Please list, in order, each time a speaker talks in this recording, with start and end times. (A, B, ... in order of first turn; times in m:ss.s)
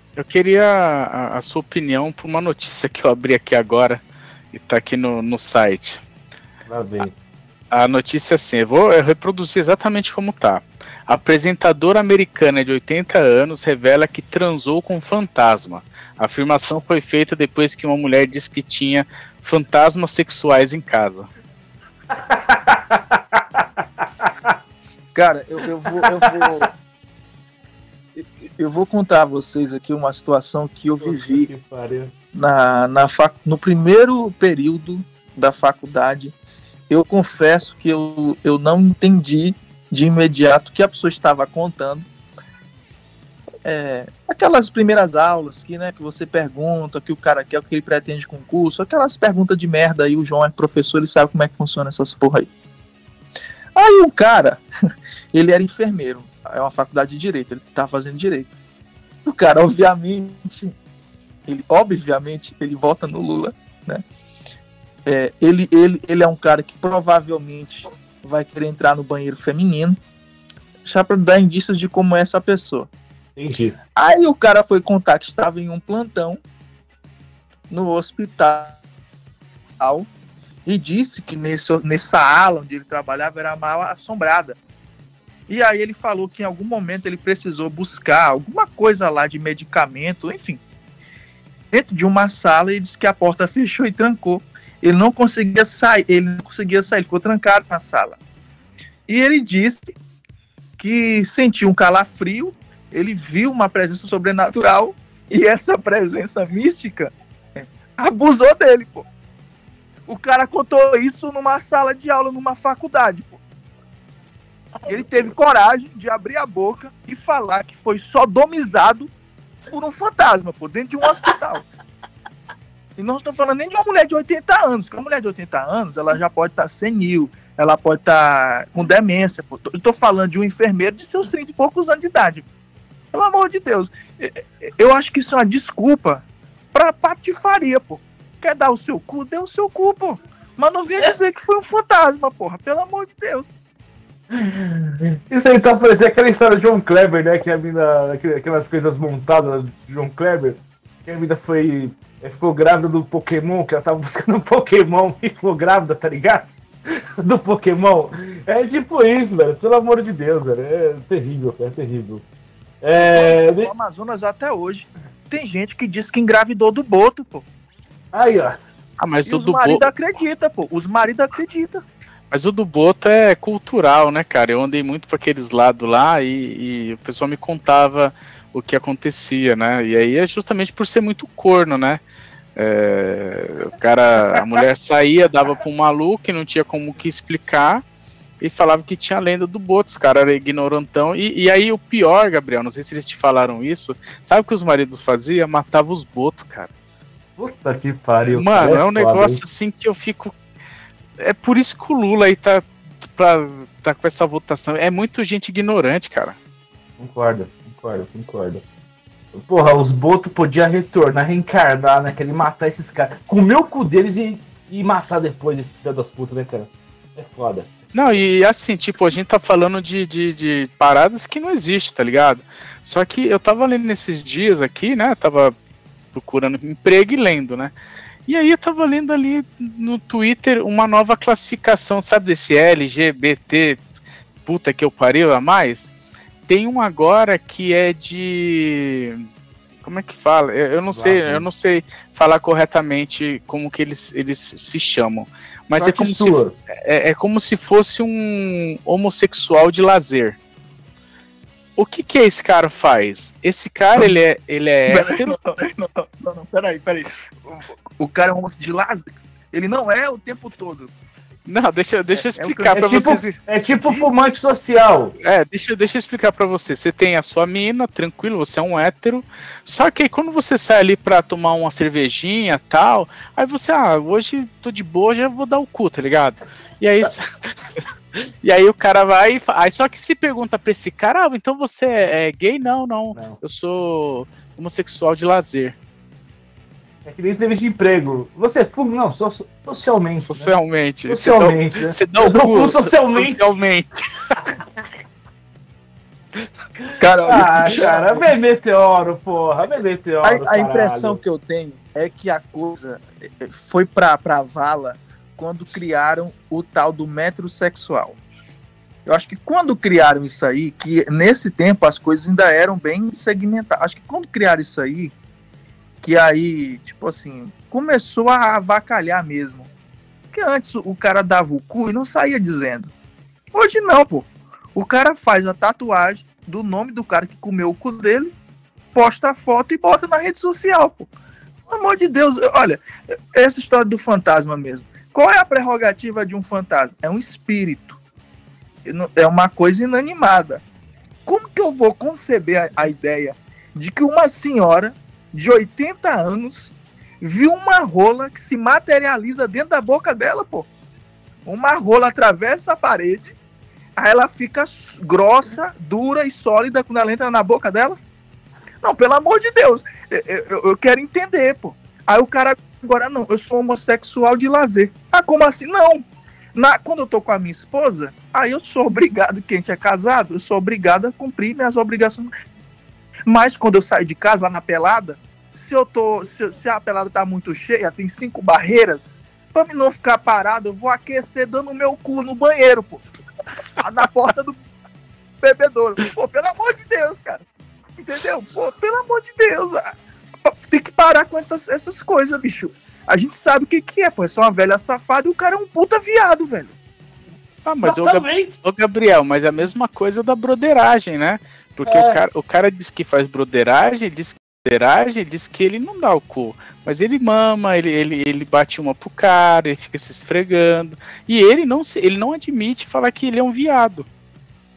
0:00.2-0:06.0 A
0:06.7-0:07.1 B
0:07.7-0:21.3 A
0:22.1-0:24.5 B
0:25.1-0:26.7 C
0:28.2-0:31.5 C
0:31.0-0:32.1 B
0:32.4-0:36.4 C
0:36.9-0:42.1 C
0:43.6-0:52.5 C
0:53.8-0:54.6 C
0:55.3-0:58.5 C
0:59.3-1:00.7 C
1:01.5-1:04.0 C
1:05.1-1:10.0 C
1:10.8-1:12.9 C
1:13.4-1:13.8 B
1:14.0-1:16.4 C
1:17.7-1:18.8 C
1:19.8-1:20.1 C
1:20.7-1:24.6 C
1:25.5-1:30.6 C
1:31.7-1:38.2 C
1:39.1-1:39.9 C
1:40.8-1:49.1 C
1:50.1-1:53.4 C
1:54.9-1:59.1 C
1:59.7-2:01.7 C
2:03.0-2:12.5 C
2:13.1-2:23.5 C
2:24.3-2:36.5 B
2:37.2-2:42.2 B
2:42.8-2:43.7 B
2:43.0-2:47.5 C
2:48.1-2:48.6 B
2:49.0-2:49.9 A
2:49.2-2:51.8 C
2:52.3-3:02.0 A
3:02.6-3:07.8 A
3:08.4-3:16.7 A
3:17.4-3:19.4 B
3:18.3-3:20.3 A
3:21.2-3:26.4 A
3:27.0-3:28.6 B
3:29.3-3:37.7 B
3:37.9-3:45.5 A
3:46.1-3:47.7 A
3:48.3-3:53.8 A
3:54.5-3:55.9 A
3:56.5-3:59.2 A
3:59.8-4:10.4 A
4:00.9-4:01.5 B
4:05.8-4:06.6 B
4:11.8-4:15.4 A
4:14.9-4:20.9 C
4:21.5-4:23.4 A
4:22.1-4:22.6 C
4:22.6-4:25.1 B
4:25.2-4:37.8 A
4:38.4-4:45.8 A
4:43.1-4:43.4 B
4:47.0-4:50.5 B
4:50.2-4:54.4 A
4:51.1-4:53.6 B
4:57.0-4:58.4 C
4:57.2-5:01.2 B
5:00.2-5:08.2 C
5:09.1-5:15.2 C
5:16.0-5:19.7 C
5:20.3-5:22.9 C
5:23.5-5:28.3 C
5:28.9-5:31.1 C
5:31.7-5:32.8 C
5:33.3-5:38.0 C
5:38.8-5:40.6 C
5:41.3-5:50.7 C
5:51.5-5:53.4 C
5:54.0-5:58.0 C
5:58.8-6:06.0 C
6:06.6-6:12.3 C
6:13.3-6:23.0 C
6:23.8-6:24.6 C
6:25.4-6:27.4 C
6:28.0-6:36.8 C
6:37.6-6:54.1 A
6:37.8-6:38.6 B
6:41.8-6:42.2 B